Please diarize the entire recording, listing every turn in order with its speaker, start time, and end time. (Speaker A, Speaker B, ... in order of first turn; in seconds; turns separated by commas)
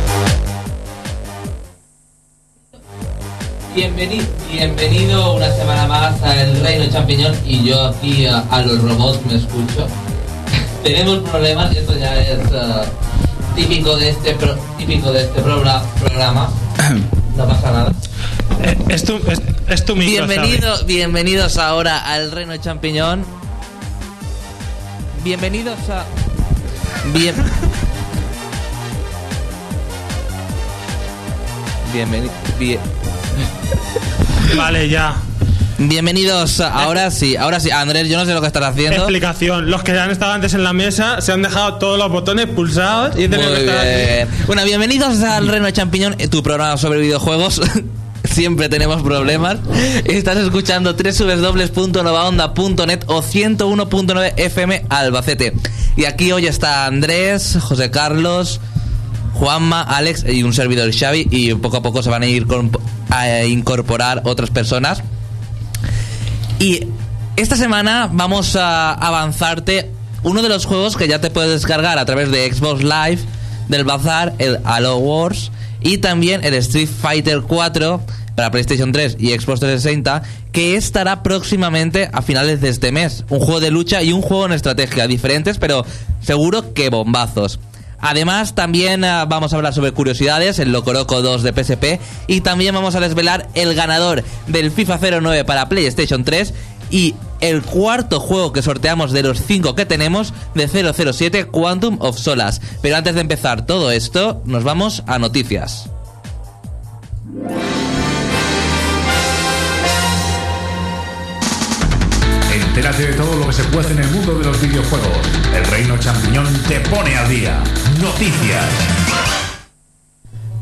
Speaker A: 3.7-9.9, Speaker A: 10.8-12.9, Speaker A: 13.5-16.6, Speaker A: 17.3-18.0, Speaker B: 18.6-20.6, Speaker A: 20.0-23.3, Speaker A: 25.2-26.1, Speaker A: 27.0-27.6, Speaker A: 31.9-32.8, Speaker B: 34.5-35.2, Speaker A: 35.8-39.1, Speaker B: 38.9-44.2, Speaker A: 43.2-58.6, Speaker A: 59.3-65.0, Speaker A: 66.6-105.9, Speaker C: 112.5-118.9